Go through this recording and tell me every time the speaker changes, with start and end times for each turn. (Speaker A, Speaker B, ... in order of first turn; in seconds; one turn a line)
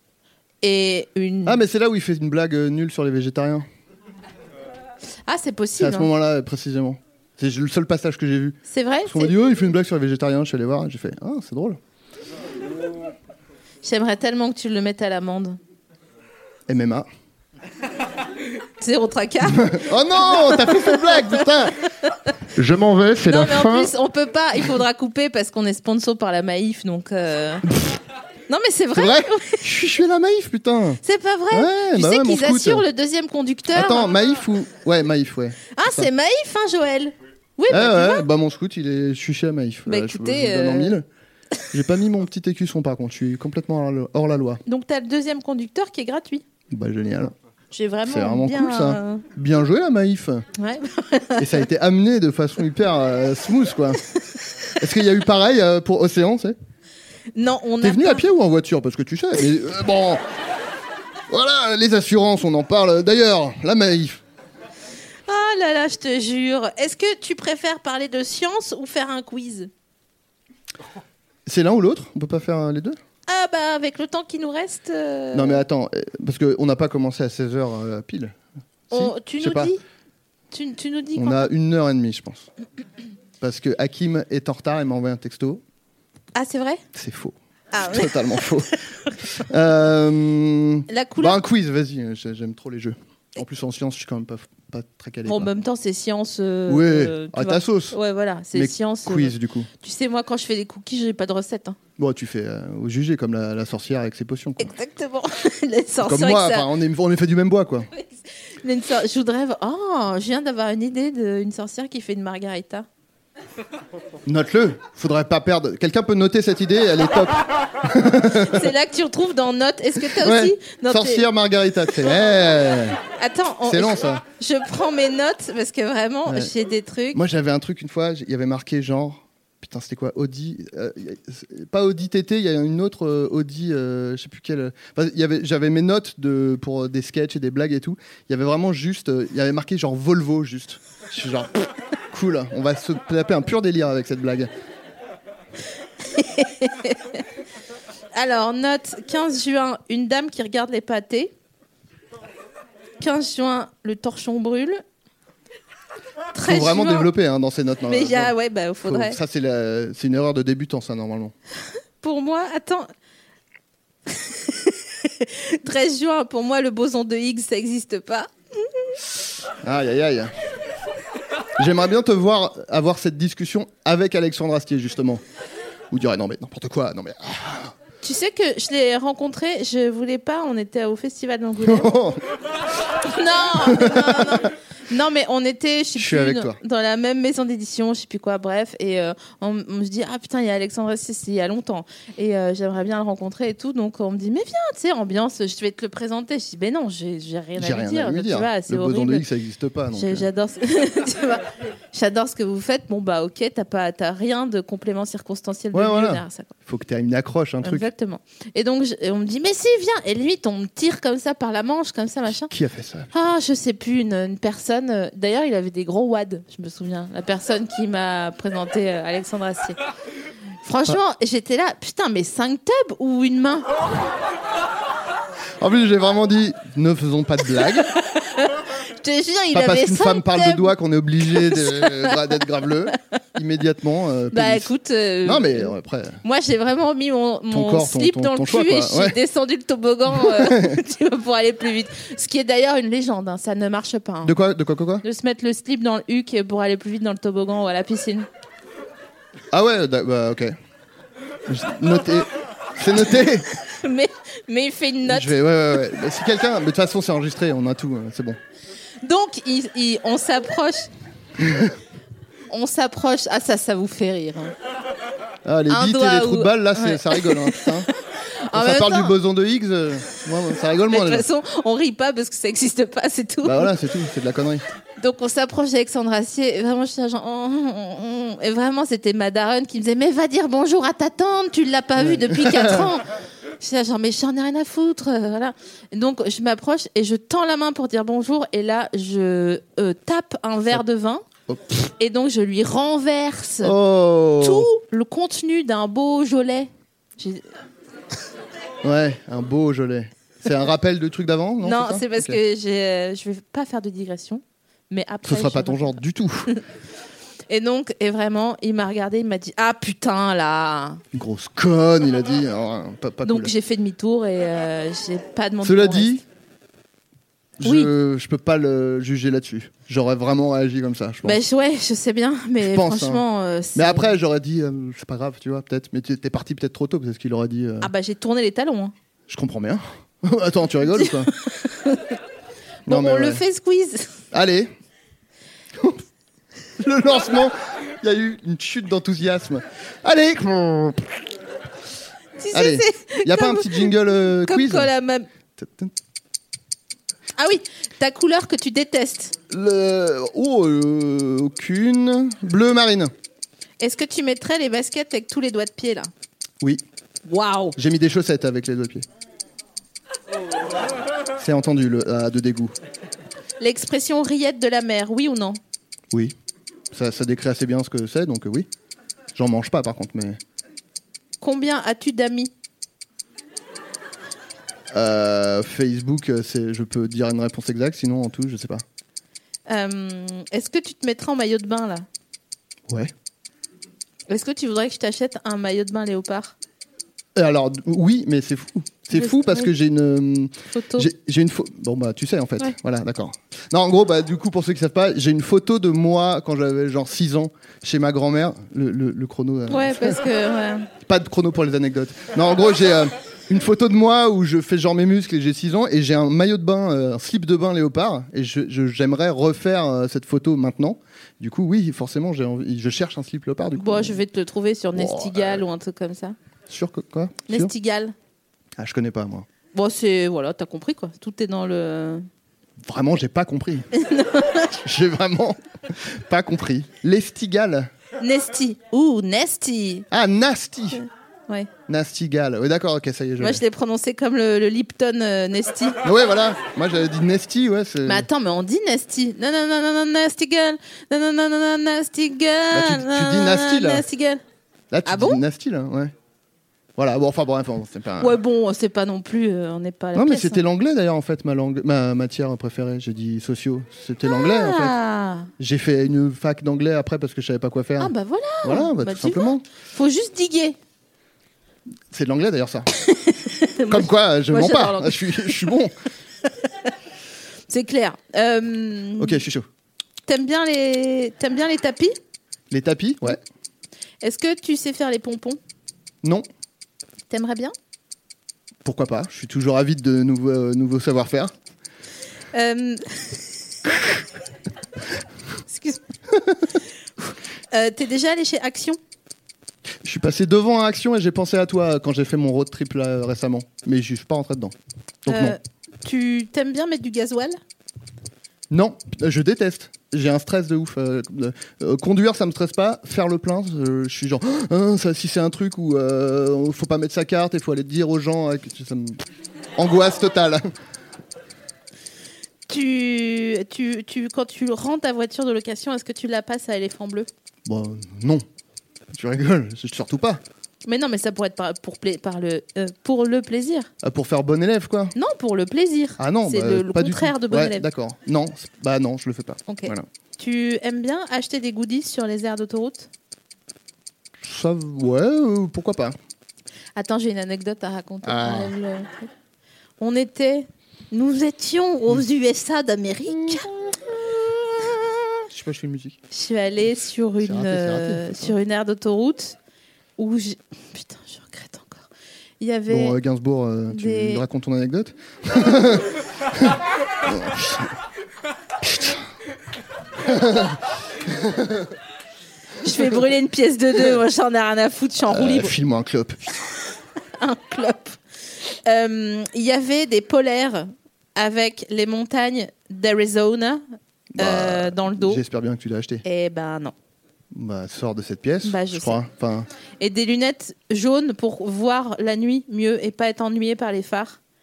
Speaker A: 0.6-1.6
Speaker B: 1.4-3.7
Speaker A: 5.3-6.1
Speaker B: 5.8-11.8
Speaker A: 8.7-9.3
Speaker A: 13.8-15.6
Speaker B: 16.7-17.1
Speaker A: 18.8-21.4
Speaker B: 19.4-21.8
Speaker B: 22.6-23.9
Speaker A: 23.3-27.7
Speaker B: 27.7-28.0
Speaker A: 28.5-29.6
Speaker B: 28.9-32.9
Speaker A: 31.0-34.1
Speaker B: 33.7-36.1
Speaker A: 35.8-38.3
Speaker B: 37.7-41.1
Speaker A: 39.9-41.0
Speaker B: 41.7-44.6
Speaker A: 44.7-46.4
Speaker B: 46.7-47.3
Speaker A: 47.7-49.2
Speaker B: 48.1-50.5
Speaker A: 50.6-51.6
Speaker B: 51.4-54.0
Speaker B: 54.8-56.6
Speaker A: 57.4-58.3
Speaker B: 57.8-60.2
Speaker B: 61.3-64.2
Speaker A: 65.3-69.7
Speaker B: 71.5-73.0
Speaker A: 73.3-75.6
Speaker B: 75.3-78.3
Speaker B: 78.9-79.7
Speaker A: 78.9-79.8
Speaker A: 80.5-81.5
Speaker B: 81.2-82.5
Speaker B: 83.4-85.6
Speaker A: 86.3-86.8
Speaker B: 86.9-95.5
Speaker A: 87.7-88.5
Speaker A: 90.9-91.4
Speaker A: 95.2-101.8
Speaker B: 96.7-98.0
Speaker B: 98.5-99.7
Speaker B: 102.0-104.8
Speaker A: 104.6-106.7
Speaker B: 106.0-107.9
Speaker A: 107.9-112.9
Speaker B: 114.3-118.7
Speaker A: 118.3-121.3
Speaker B: 120.0-123.0
Speaker A: 123.1-127.2
Speaker B: 123.6-124.2
Speaker B: 127.1-144.5
Speaker A: 146.1-147.2
Speaker A: 148.1-151.3
Speaker A: 153.0-154.8
Speaker A: 156.3-157.1
Speaker B: 156.4-158.3
Speaker A: 157.9-159.2
Speaker B: 158.8-161.3
Speaker A: 162.0-162.9
Speaker A: 164.1-168.9
Speaker B: 169.6-170.3
Speaker B: 171.6-175.2
Speaker B: 175.9-177.7
Speaker A: 178.0-181.9
Speaker B: 181.6-182.2
Speaker A: 183.0-199.2
Speaker B: 183.6-184.5
Speaker B: 186.0-186.6
Speaker B: 197.6-200.3
Speaker A: 199.9-206.5
Speaker B: 205.7-207.9
Speaker A: 207.6-212.5
Speaker B: 212.4-213.1
Speaker A: 213.1-219.8
Speaker A: 220.7-223.7
Speaker B: 225.6-227.9
Speaker A: 228.1-230.7
Speaker B: 229.5-234.7
Speaker A: 231.3-232.2
Speaker A: 234.3-244.4
Speaker B: 235.2-236.2
Speaker B: 237.5-239.2
Speaker B: 240.1-240.8
Speaker B: 244.2-245.1
Speaker A: 245.0-248.3
Speaker B: 249.5-250.6
Speaker B: 251.5-253.5
Speaker A: 253.6-255.4
Speaker B: 255.1-258.4
Speaker A: 259.0-260.9
Speaker B: 261.4-261.8
Speaker A: 262.5-264.5
Speaker B: 265.4-267.9
Speaker A: 265.7-267.7
Speaker A: 268.4-269.1
Speaker B: 268.5-271.3
Speaker A: 270.9-273.7
Speaker B: 273.4-274.6
Speaker A: 275.0-283.1
Speaker B: 282.0-282.9
Speaker A: 283.6-291.2
Speaker B: 291.5-291.9
Speaker A: 292.0-293.7
Speaker B: 293.6-294.7
Speaker A: 294.4-297.4
Speaker B: 298.8-302.4
Speaker A: 301.6-306.0
Speaker B: 305.2-306.5
Speaker A: 307.5-311.0
Speaker B: 311.1-313.5
Speaker A: 313.2-316.2
Speaker B: 315.6-316.2
Speaker B: 317.6-321.4
Speaker A: 317.6-317.9
Speaker A: 321.2-324.1
Speaker B: 322.6-327.9
Speaker A: 327.8-328.9
Speaker B: 329.3-331.3
Speaker A: 331.0-332.2
Speaker B: 332.9-333.4
Speaker A: 332.9-334.1
Speaker B: 334.3-334.7
Speaker B: 335.8-336.0
Speaker B: 336.8-341.2
Speaker A: 342.4-345.3
Speaker B: 342.5-344.9
Speaker B: 345.6-345.9
Speaker A: 347.4-349.3
Speaker B: 349.5-353.1
Speaker A: 353.8-356.1
Speaker A: 357.2-357.8
Speaker B: 357.8-359.1
Speaker B: 361.4-362.7
Speaker A: 363.6-365.6
Speaker B: 366.9-368.7
Speaker B: 369.4-370.4
Speaker A: 371.4-372.5
Speaker B: 374.9-378.8
Speaker A: 379.7-382.1
Speaker A: 384.3-386.6
Speaker B: 387.4-400.2
Speaker A: 389.1-389.7
Speaker A: 390.7-391.1
Speaker A: 399.7-400.9
Speaker B: 401.0-414.2
Speaker A: 413.8-416.4
Speaker B: 414.9-415.6
Speaker B: 416.7-417.7
Speaker A: 417.5-418.1
Speaker B: 418.8-419.5
Speaker A: 419.7-422.3
Speaker B: 422.8-423.9
Speaker A: 423.9-424.8
Speaker B: 424.8-427.9
Speaker A: 428.2-430.1
Speaker B: 430.1-431.1
Speaker A: 430.9-431.7
Speaker B: 431.9-433.6
Speaker A: 433.4-436.0
Speaker B: 436.0-438.3
Speaker A: 438.1-444.4
Speaker B: 442.7-444.1
Speaker B: 444.9-446.1
Speaker A: 445.1-445.4
Speaker B: 447.0-448.4
Speaker A: 448.2-450.6
Speaker B: 450.1-454.9
Speaker A: 454.2-455.5
Speaker B: 455.6-459.6
Speaker A: 458.0-460.8
Speaker B: 462.1-462.9
Speaker A: 463.0-465.7
Speaker B: 463.9-465.9
Speaker A: 466.4-466.9
Speaker A: 467.7-469.4
Speaker B: 469.2-469.7
Speaker A: 470.3-472.1
Speaker B: 472.7-473.4
Speaker A: 474.2-475.6
Speaker A: 477.3-477.7
Speaker B: 478.8-481.5
Speaker A: 482.5-483.4
Speaker A: 485.7-486.0
Speaker A: 487.2-489.0
Speaker B: 490.0-495.6
Speaker A: 495.3-497.6
Speaker B: 498.7-509.2
Speaker B: 509.8-510.7
Speaker A: 512.7-517.3
Speaker B: 517.6-518.5
Speaker B: 519.1-520.4
Speaker A: 520.9-523.9
Speaker B: 524.0-525.1
Speaker A: 525.2-527.9
Speaker B: 526.2-530.1
Speaker A: 529.7-533.1
Speaker B: 534.4-536.2
Speaker A: 537.0-539.3
Speaker B: 538.2-538.7
Speaker A: 540.0-543.7
Speaker B: 543.3-546.2
Speaker A: 546.3-549.6
Speaker B: 547.4-548.5
Speaker A: 550.2-552.1
Speaker A: 552.6-553.2
Speaker B: 552.9-558.0
Speaker A: 553.9-554.5
Speaker B: 558.8-559.2
Speaker B: 560.2-561.9
Speaker A: 562.8-565.7
Speaker B: 565.2-566.4
Speaker A: 567.4-573.8
Speaker B: 574.4-576.2
Speaker A: 574.4-575.4
Speaker A: 576.2-576.9
Speaker B: 577.5-579.7
Speaker A: 578.6-579.2
Speaker A: 580.0-584.4